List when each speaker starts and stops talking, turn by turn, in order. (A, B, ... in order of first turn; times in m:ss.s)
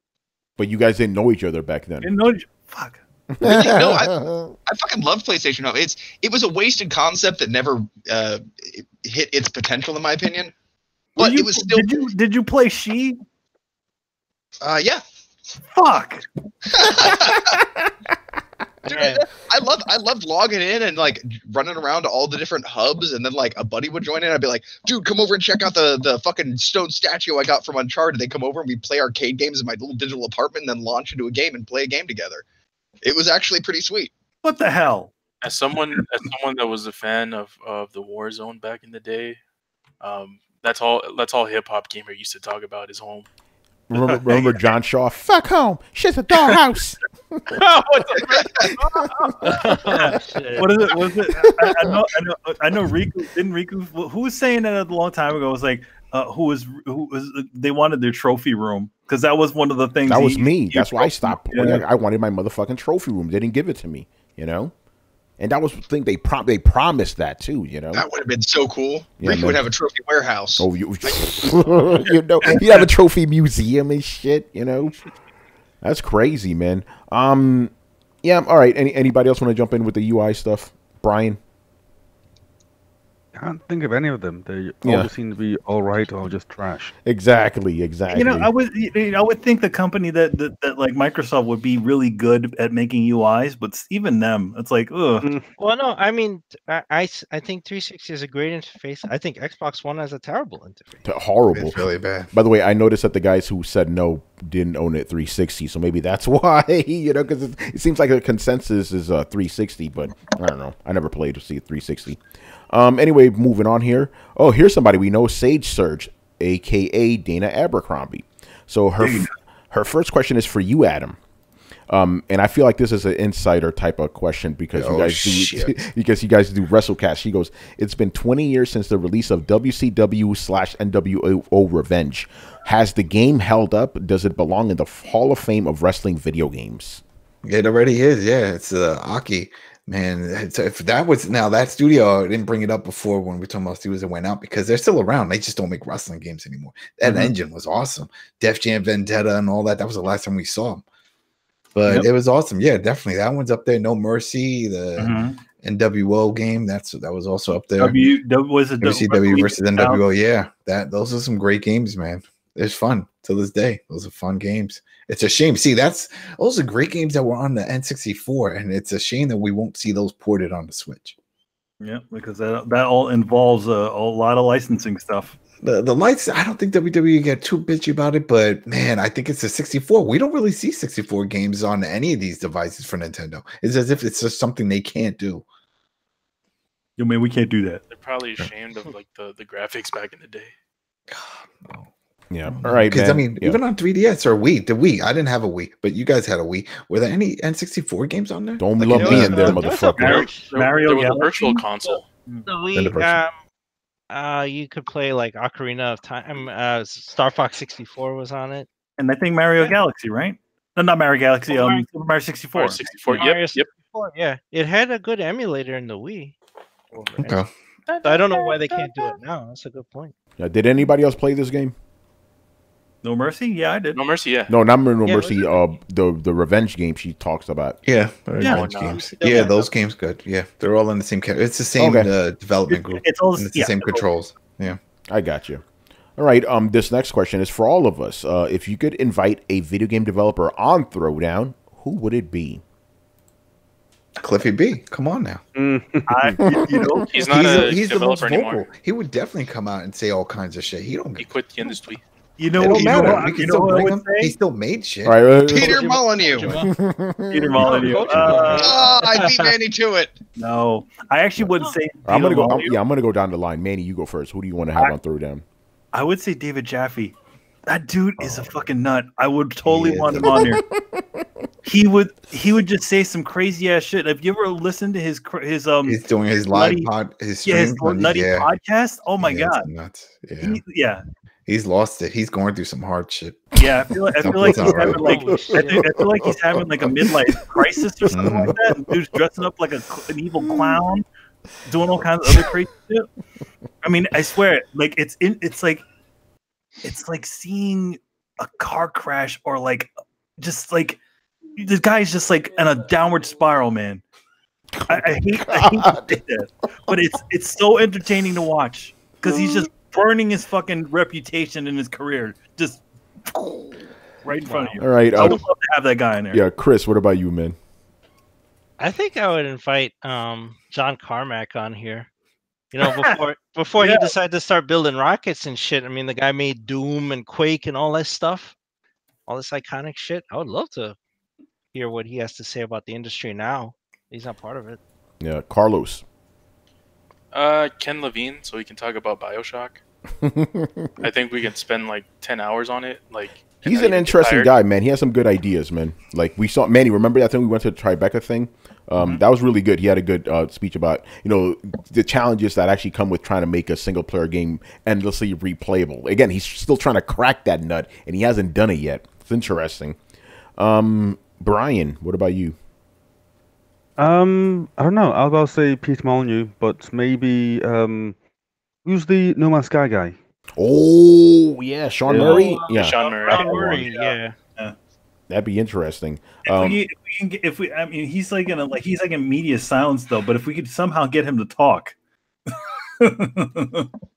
0:00.6-0:02.1 A
0:02.0-0:03.0 B
0:03.3-0:04.5 A
0:03.4-0:10.5 C
0:11.2-0:12.0 C
0:11.2-0:13.2 B
0:14.6-0:15.0 C
0:15.7-0:16.3 B
0:16.7-0:17.6 C
0:17.1-0:17.6 A
0:18.8-0:32.4 C
0:18.9-0:19.2 D
0:33.0-0:34.1 C
0:34.4-0:35.1 B
0:35.4-0:39.4 E
0:40.0-0:43.2 E
0:43.9-0:47.6 A
0:44.2-0:44.4 B
0:47.5-0:50.1 E
0:49.4-0:50.9 D
0:49.9-1:01.8 B
0:51.5-0:51.9 A
1:00.0-1:04.7 A
1:05.4-1:08.0 A
1:07.9-1:10.7 C
1:09.2-1:09.6 A
1:10.6-1:15.0 A
1:12.5-1:12.8 B
1:15.8-1:17.7 A
1:18.2-1:21.4 A
1:23.3-1:26.9 F
1:24.8-1:25.1 A
1:27.0-1:28.5 A
1:28.1-1:35.3 B
1:35.2-1:35.5 F
1:35.6-1:41.0 D
1:41.0-2:01.2 A
1:41.5-1:42.3 G
1:59.0-1:59.3 B
2:01.9-2:17.0 A
2:04.7-2:05.8 G
2:17.4-2:30.8 G
2:27.0-2:27.3 B
2:31.7-2:38.0 G
2:35.0-2:35.4 B
2:37.8-2:40.0 B
2:38.8-2:51.1 G
2:51.8-2:55.3 B
2:55.6-3:05.4 G
3:07.0-3:07.8 B
3:07.9-3:10.5 E
3:11.1-3:11.9 G
3:12.3-3:13.6 A
3:12.4-3:19.6 G
3:18.6-3:20.3 A
3:18.9-3:20.5 D
3:19.1-3:21.6 B
3:20.4-3:22.1 E
3:21.8-3:23.4 D
3:22.8-3:23.2 G
3:24.1-3:28.7 D
3:29.0-3:32.8 B
3:31.5-3:31.8 D
3:32.5-3:33.7 E
3:32.9-3:36.4 D
3:36.9-3:37.4 D
3:37.2-3:37.5 G
3:37.9-3:39.1 E
3:38.0-3:40.1 D
3:40.4-3:41.7 A
3:43.0-3:44.0 B
3:43.9-3:44.5 E
3:44.5-3:47.8 A
3:45.0-3:45.6 D
3:47.8-3:54.8 G
3:48.4-3:48.6 B
3:48.4-3:49.5 E
3:48.7-3:49.7 D
3:51.8-3:52.1 A
3:52.7-3:54.0 B
3:55.1-3:55.6 A
3:56.2-4:02.6 A
4:04.2-4:05.4 G
4:05.5-4:07.0 F
4:06.1-4:07.1 B
4:07.1-4:08.6 E
4:07.2-4:11.7 G
4:11.2-4:12.0 E
4:12.4-4:14.3 B
4:12.6-4:15.3 G
4:12.9-4:13.2 A
4:15.0-4:18.4 A
4:15.5-4:16.5 C
4:16.4-4:16.7 D
4:17.3-4:18.9 B
4:17.6-4:19.5 D
4:18.3-4:18.6 E
4:18.5-4:20.2 C
4:20.4-4:22.8 B
4:22.0-4:25.4 A
4:25.9-4:27.1 B
4:27.6-4:30.6 B
4:28.2-4:28.5 G
4:29.6-4:30.5 G
4:30.2-4:31.2 A
4:31.6-4:36.9 B
4:35.9-4:38.5 G
4:37.4-4:39.7 B
4:39.2-4:40.6 G
4:40.4-4:41.0 B
4:41.5-4:43.6 G
4:43.6-4:51.0 B
4:44.2-4:45.2 G
4:44.8-4:45.9 D
4:45.7-4:46.1 A
4:48.1-4:48.6 G
4:48.2-4:48.9 A
4:50.5-4:50.8 A
4:51.6-4:53.1 B
4:53.8-4:55.8 B
4:56.8-5:01.0 B
5:01.6-5:04.0 B
5:04.7-5:06.2 A
5:04.9-5:12.8 B
5:09.3-5:09.6 A
5:14.2-5:16.4 B
5:14.4-5:15.3 D
5:14.8-5:15.4 A
5:16.3-5:17.6 A
5:18.8-5:22.1 D
5:22.7-5:28.5 D
5:22.8-5:23.2 B
5:23.8-5:24.1 B
5:29.3-5:31.0 D
5:31.7-5:34.8 D
5:35.2-5:36.0 A
5:37.3-5:39.8 E
5:40.2-5:41.0 A
5:41.0-5:44.5 E
5:43.6-6:00.0 A
6:00.6-6:02.6 A
6:04.0-6:08.2 F
6:08.8-6:10.2 F
6:10.6-6:12.9 A
6:12.1-6:12.4 F
6:12.1-6:14.7 B
6:12.5-6:13.9 E
6:13.0-6:14.4 D
6:15.3-6:16.8 A
6:16.4-6:21.9 B
6:22.5-6:23.9 B